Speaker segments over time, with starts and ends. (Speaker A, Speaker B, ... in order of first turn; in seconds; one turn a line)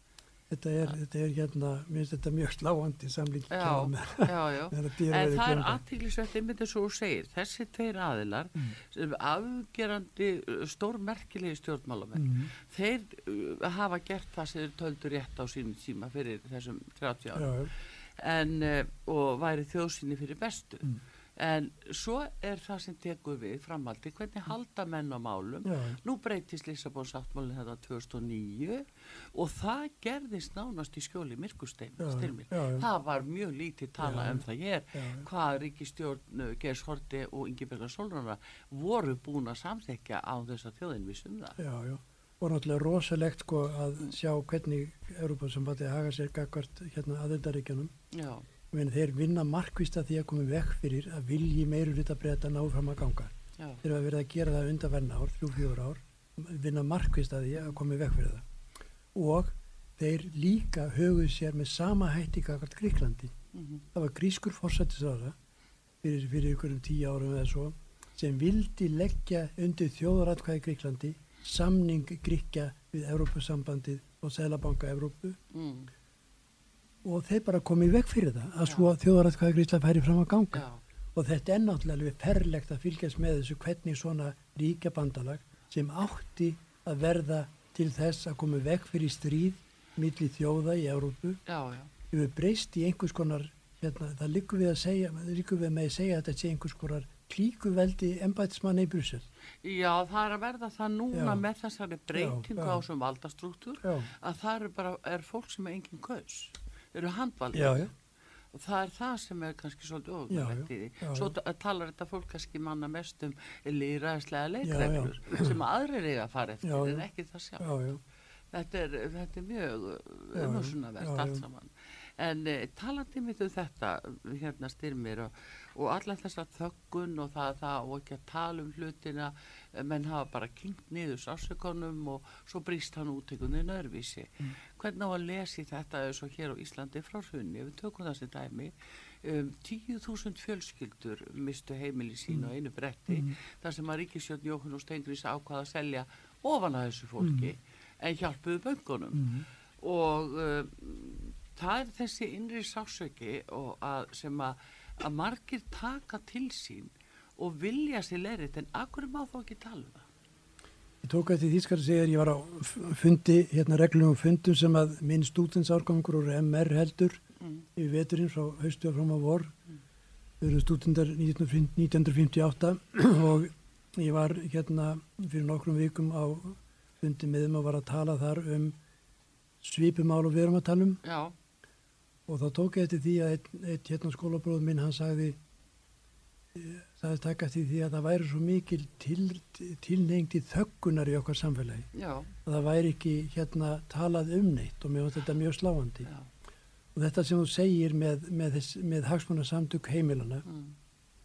Speaker A: 0.5-5.8
Speaker B: 3.5-41.6
Speaker A: 12.2-12.5
Speaker A: 17.4-17.7
Speaker A: 25.6-26.0
Speaker A: 32.0-32.9
Speaker A: 34.0-35.3
Speaker A: 41.6-47.9
Speaker B: 48.1-48.5
Speaker A: 48.7-58.5
Speaker A: 59.1-63.3
Speaker B: 63.5-63.8
Speaker A: 63.9-65.3
Speaker A: 66.0-75.4
Speaker B: 75.5-75.9
Speaker A: 77.0-91.4
Speaker B: 78.7-78.9
Speaker B: 80.5-80.8
Speaker B: 91.5-91.9
Speaker A: 92.1-99.3
Speaker B: 99.6-107.9
Speaker A: 101.1-101.4
Speaker A: 102.1-102.8
Speaker A: 103.8-104.1
Speaker A: 107.5-107.9
Speaker B: 108.5-117.7
Speaker A: 110.3-111.3
Speaker A: 114.6-115.6
Speaker A: 116.6-117.1
Speaker A: 117.6-118.0
Speaker B: 118.5-160.1
Speaker A: 120.3-121.4
Speaker A: 143.1-143.3
Speaker A: 147.2-147.5
Speaker A: 149.1-149.5
Speaker A: 161.0-167.2
Speaker A: 167.8-169.5
Speaker A: 170.4-178.8
Speaker A: 179.6-181.0
Speaker B: 181.0-181.3
Speaker A: 182.3-185.4
Speaker A: 186.5-191.9
Speaker B: 191.9-192.3
Speaker A: 192.4-196.1
Speaker A: 196.9-200.4
Speaker B: 200.5-200.7